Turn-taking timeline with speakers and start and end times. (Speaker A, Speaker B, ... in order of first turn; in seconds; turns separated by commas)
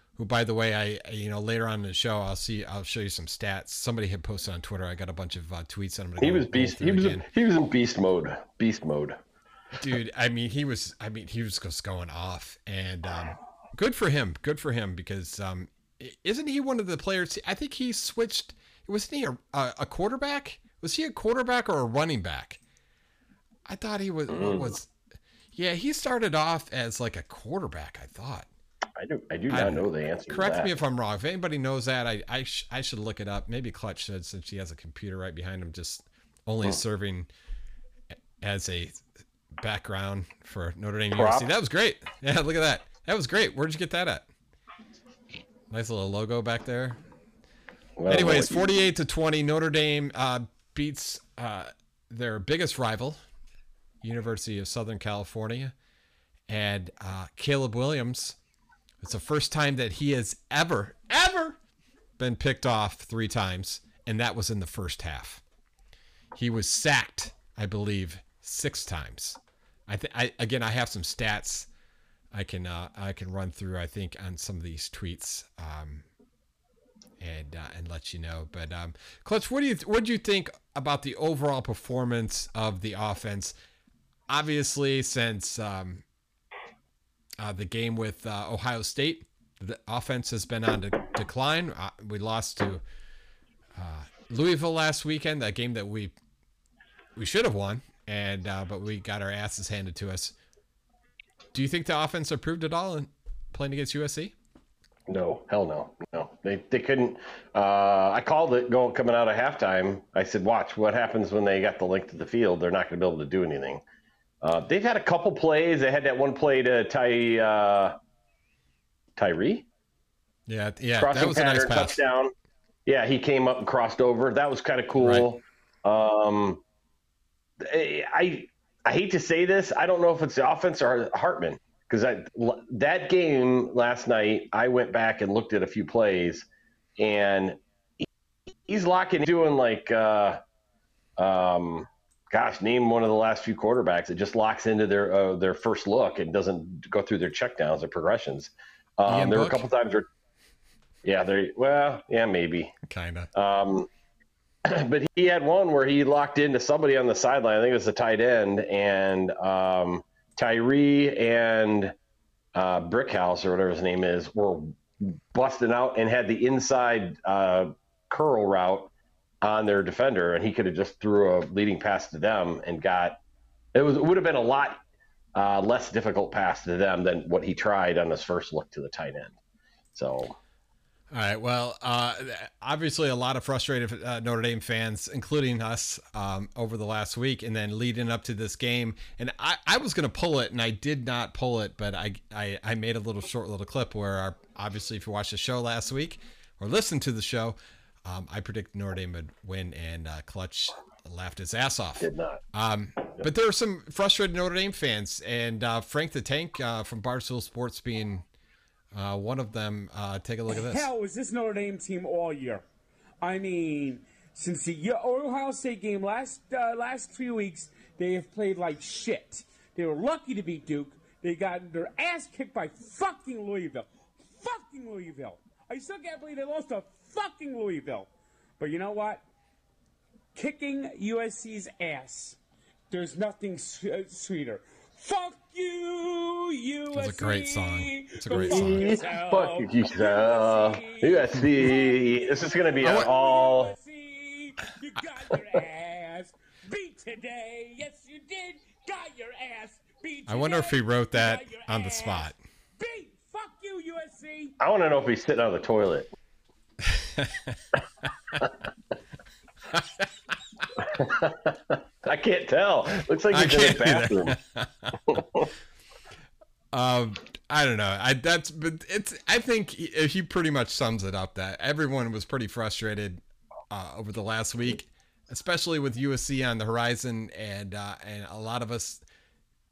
Speaker A: 0.2-7.3, Speaker B: 6.2-9.2, Speaker A: 9.8-22.6, Speaker A: 23.7-24.9, Speaker B: 24.3-24.8, Speaker A: 25.5-28.5, Speaker B: 29.0-30.7, Speaker A: 29.5-37.3, Speaker A: 38.4-39.0, Speaker A: 39.6-44.3, Speaker B: 41.2-41.5, Speaker A: 45.7-47.0, Speaker B: 48.0-48.6, Speaker A: 48.1-53.2, Speaker A: 54.0-55.7, Speaker A: 56.5-58.4, Speaker A: 59.0-61.6, Speaker A: 62.2-65.4, Speaker A: 66.3-71.7, Speaker A: 72.3-76.0, Speaker A: 77.2-83.5, Speaker A: 84.3-86.0, Speaker A: 87.4-92.8, Speaker A: 93.8-96.2, Speaker A: 97.2-100.3, Speaker A: 101.5-104.3, Speaker B: 105.1-113.8, Speaker B: 114.4-118.0, Speaker B: 119.2-119.7, Speaker A: 120.5-122.0, Speaker B: 121.0-122.3, Speaker B: 122.9-126.6, Speaker A: 125.0-125.3, Speaker B: 127.6-136.5, Speaker B: 137.0-138.1, Speaker B: 138.7-140.4, Speaker B: 141.2-150.1, Speaker A: 149.1-149.7, Speaker B: 151.1-152.7, Speaker A: 152.8-153.3, Speaker B: 153.3-153.9, Speaker B: 154.7-162.0, Speaker B: 162.6-173.2, Speaker B: 173.8-174.8, Speaker B: 175.3-179.4, Speaker B: 179.9-180.4, Speaker A: 181.1-208.3, Speaker B: 202.0-202.4, Speaker A: 208.9-210.9, Speaker C: 210.5-212.6, Speaker C: 213.2-229.3, Speaker C: 230.3-232.4, Speaker C: 232.9-254.6, Speaker A: 236.9-238.9, Speaker B: 238.5-243.7, Speaker A: 242.8-243.1, Speaker A: 250.3-252.4, Speaker B: 254.6-256.1, Speaker A: 256.8-257.8, Speaker A: 259.7-260.1, Speaker B: 260.8-264.4, Speaker A: 263.3-265.2, Speaker B: 265.1-265.5, Speaker A: 266.7-279.0